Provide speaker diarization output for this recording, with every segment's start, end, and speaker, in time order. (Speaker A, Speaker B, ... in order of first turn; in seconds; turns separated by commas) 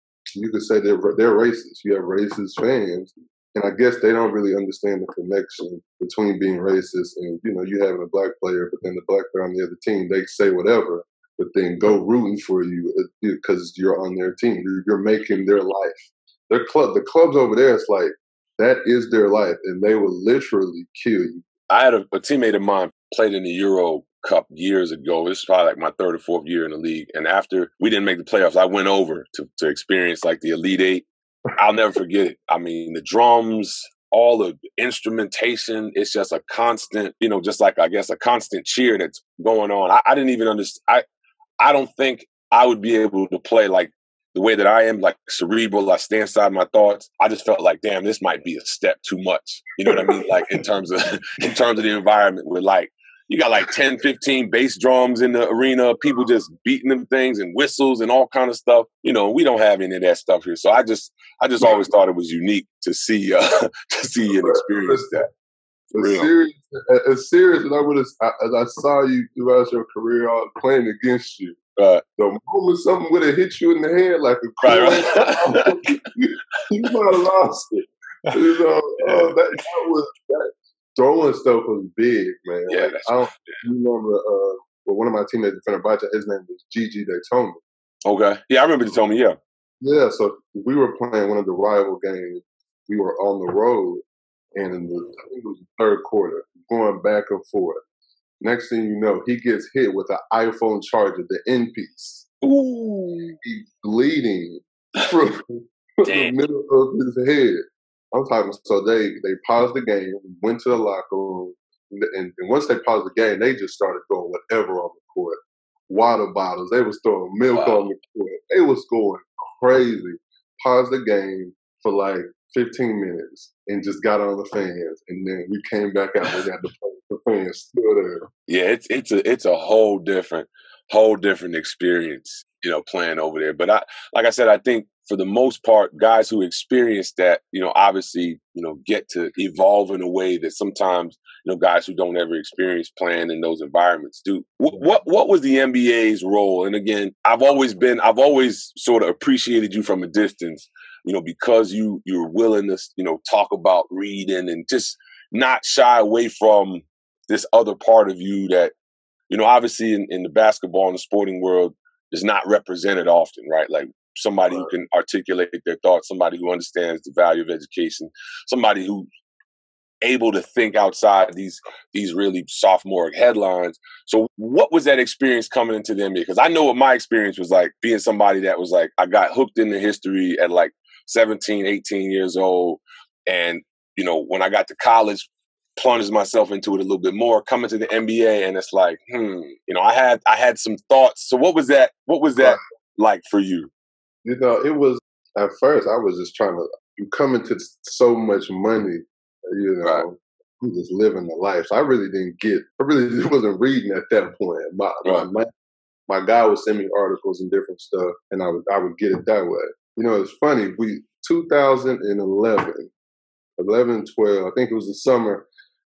Speaker A: 0.3-21.4, Speaker B: 21.7-41.0, Speaker B: 41.6-65.2, Speaker A: 49.9-50.2, Speaker A: 64.4-65.3, Speaker A: 65.9-71.6, Speaker B: 66.0-66.3, Speaker B: 71.8-72.0, Speaker A: 72.2-87.6, Speaker B: 74.6-76.0, Speaker B: 79.0-79.3, Speaker B: 82.7-83.6, Speaker B: 88.0-89.4, Speaker A: 89.8-94.0, Speaker A: 94.5-97.8, Speaker A: 98.4-102.3, Speaker B: 102.4-103.4, Speaker A: 103.4-128.3, Speaker B: 106.0-106.3, Speaker B: 117.5-117.9, Speaker B: 128.5-158.7, Speaker B: 159.3-169.1, Speaker B: 170.0-193.7, Speaker A: 194.2-205.5, Speaker A: 206.1-212.9, Speaker A: 213.6-215.4